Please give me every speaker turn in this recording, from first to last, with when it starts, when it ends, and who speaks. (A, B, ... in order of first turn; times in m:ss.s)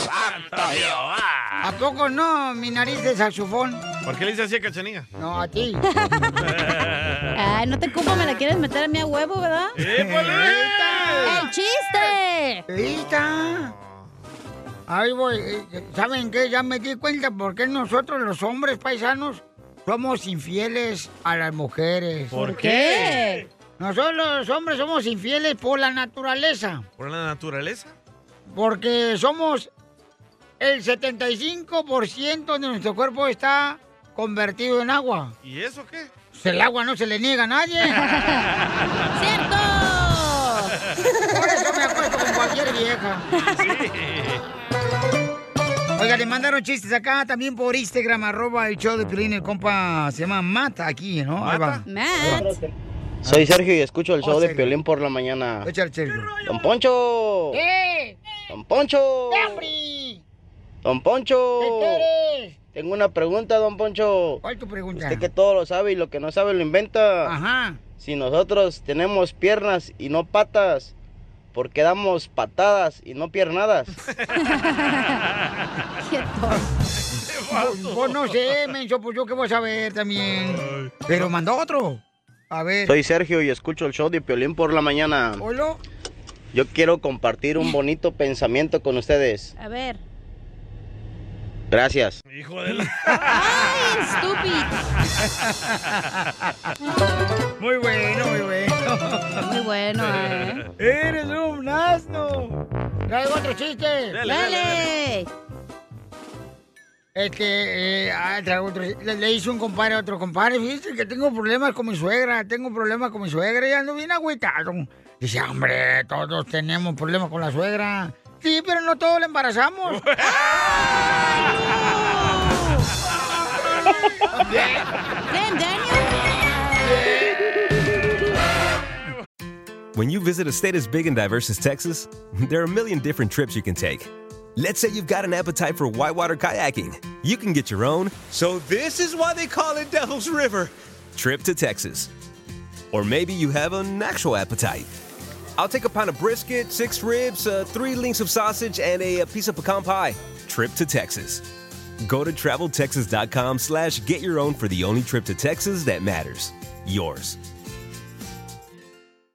0:00.3-0:01.4 A
0:01.6-0:03.8 B
0:04.0-0:05.1 A
0:05.2-0:05.8 B
0:05.9-0:06.3 C
0:06.4-0:07.3 A
0:07.3-0:09.8 C
0:09.8-0:11.4 A
0:09.8-0:11.4 B
0:11.2-0:12.6 C
0:12.7-0:13.7 B
0:13.4-0:14.0 A
0:14.9-0:22.4 B
0:22.3-0:23.4 A
0:22.4-0:23.4 C
0:23.8-0:26.8 B
0:27.0-0:28.0 A
0:28.5-0:29.7 B
0:30.6-0:35.3 B
0:35.4-0:36.1 A
0:36.3-0:38.0 B
0:38.0-0:38.4 C
0:38.4-0:39.0 A
0:39.1-0:40.7 C
0:41.3-0:43.3 B
0:43.4-0:44.4 A
0:46.0-0:52.5 B
0:51.4-0:51.8 A
0:51.9-0:52.5 C
0:53.2-0:55.7 D
0:54.2-0:54.7 B
0:55.6-0:56.3 B
0:56.4-0:57.6 D
0:57.5-0:58.2 B
0:58.5-0:59.7 D
0:59.3-1:00.2 B
1:00.8-1:02.0 D
1:01.6-1:02.5 B
1:02.7-1:04.4 D
1:04.4-1:05.3 B
1:05.0-1:07.4 D
1:07.2-1:07.8 B
1:08.0-1:10.9 D
1:11.5-1:13.9 D
1:14.1-1:14.6 A
1:14.5-1:15.0 C
1:16.0-1:16.6 C
1:17.1-1:18.6 A
1:17.6-1:23.0 B
1:20.6-1:21.2 A
1:22.9-1:25.4 D
1:25.4-1:25.8 B
1:26.5-1:29.5 D
1:29.6-1:30.0 C
1:31.7-1:32.2 D
1:32.3-1:33.3 A
1:33.3-1:34.8 C
1:37.6-1:39.3 B
1:39.4-1:40.6 C
1:40.0-1:40.6 A
1:40.8-1:42.6 B
1:43.1-1:44.3 B
1:44.1-1:44.9 A
1:44.2-1:45.3 C
1:47.2-2:00.0 B
1:59.9-2:00.8 A
2:02.0-2:02.8 C
2:04.4-2:04.8 B
2:05.3-2:06.2 C
2:06.9-2:07.2 B
2:09.9-2:22.1 E
2:22.9-2:24.9 E
2:25.6-2:31.4 E
2:32.0-2:37.4 E